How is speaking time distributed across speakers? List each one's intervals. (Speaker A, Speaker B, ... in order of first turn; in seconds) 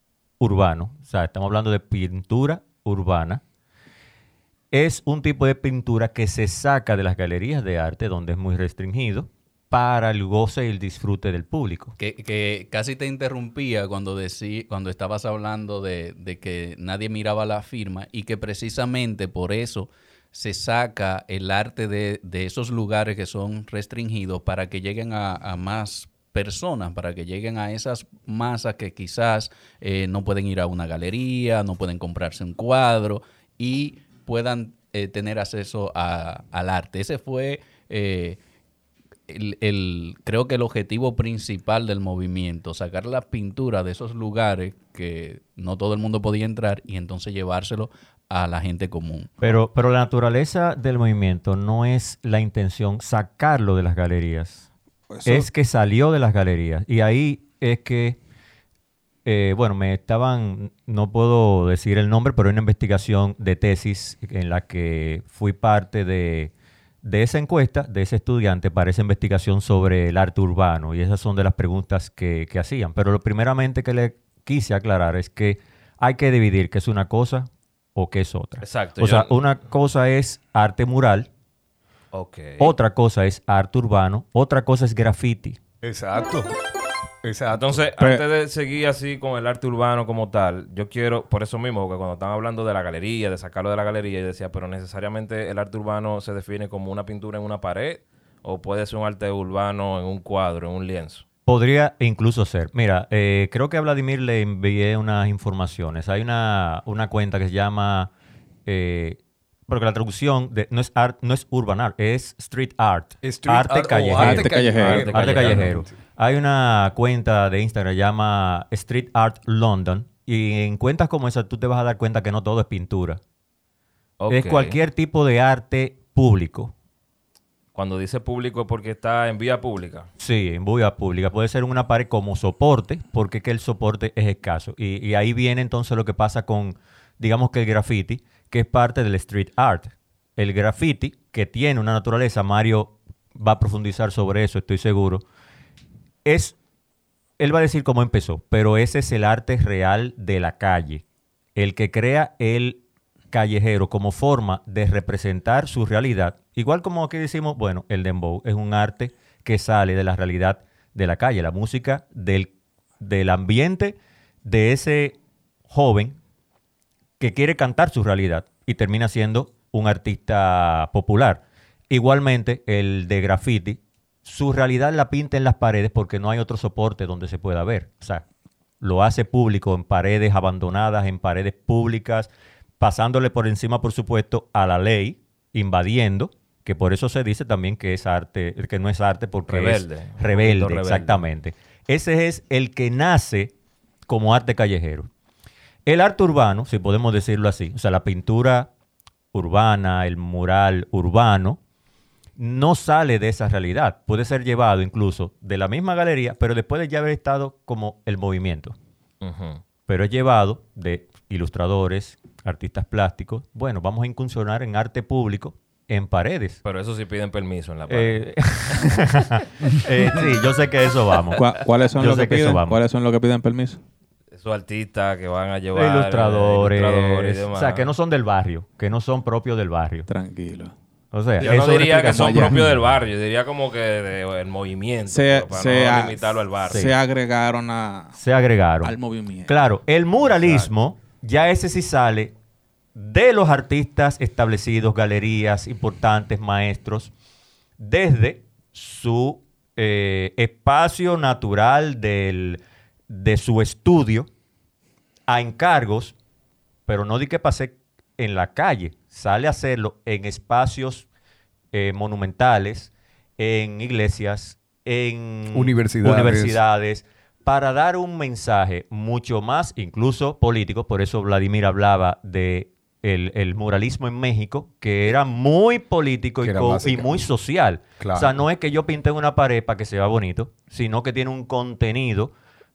Speaker A: 0.4-3.4, 4.7-11.9, 49.4-54.6, 55.2-58.2, 59.2-66.5, 67.0-81.3, 82.6-85.6, 101.5-108.1, 108.7-123.2, 124.3-126.7, 130.2-145.2, 146.2-146.6, 147.4-151.0, 151.5-165.2, 165.7-166.2, 167.2-178.2, 178.8-193.5, 194.1-195.1, 195.8-198.7, 199.3-201.6, 202.4-208.8, 209.9-216.6, 217.9-222.8, 225.7-230.1, 231.1-232.5, 238.2-238.9, 239.5-242.3, 242.9-247.1, 247.8-254.3, 255.3-256.1, 256.9-261.1, 261.7-282.3
Speaker B: 12.0-38.4, 39.3-49.4
Speaker C: 55.1-55.5, 88.0-88.2, 114.2-115.2, 221.4-223.8, 230.1-230.7, 232.1-232.6, 235.1-238.2, 238.8-239.5
Speaker D: 78.6-79.3, 82.1-82.7, 87.5-101.2, 114.8-115.7, 124.2-124.8, 127.7-130.1, 189.5-191.2, 209.2-209.6, 216.6-218.9, 224.3-227.9, 231.4-236.9
Speaker E: 85.8-86.5, 87.2-87.9, 113.2-115.9, 265.5-266.6, 276.4-277.2, 278.0-278.4